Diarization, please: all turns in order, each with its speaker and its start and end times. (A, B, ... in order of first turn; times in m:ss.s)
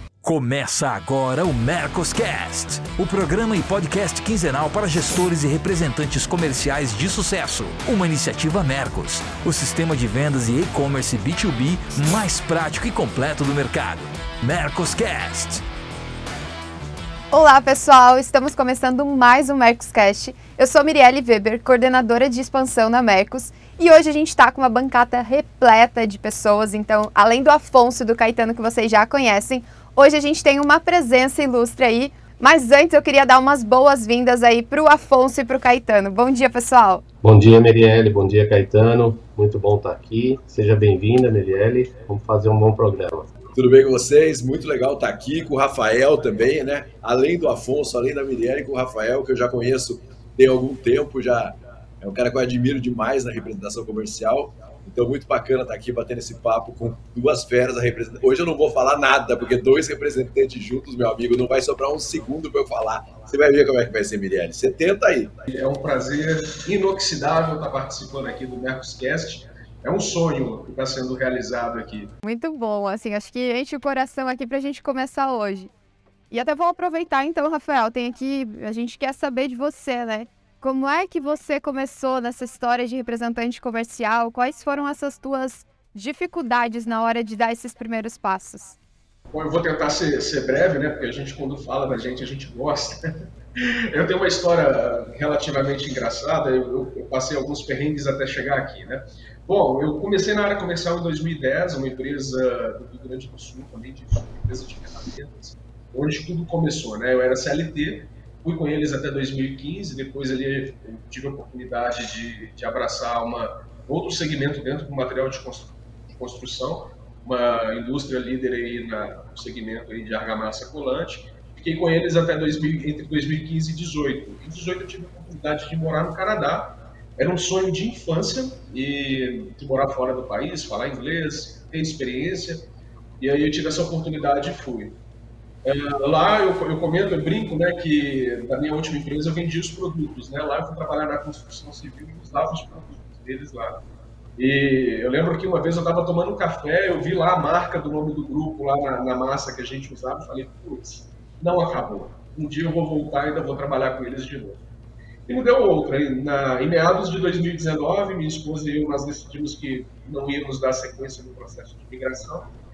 0:00.2-0:15.6 A
0:17.3-0:37.0 B
0:37.2-0:43.3 C
0:43.6-1:05.3 D
1:05.5-1:12.1 E
1:12.2-1:15.7 B
1:16.3-1:28.8 B
1:29.3-2:12.7 E
2:13.2-2:15.0 E
2:15.6-2:23.8 E
2:24.4-2:34.6 E
2:35.3-2:42.5 E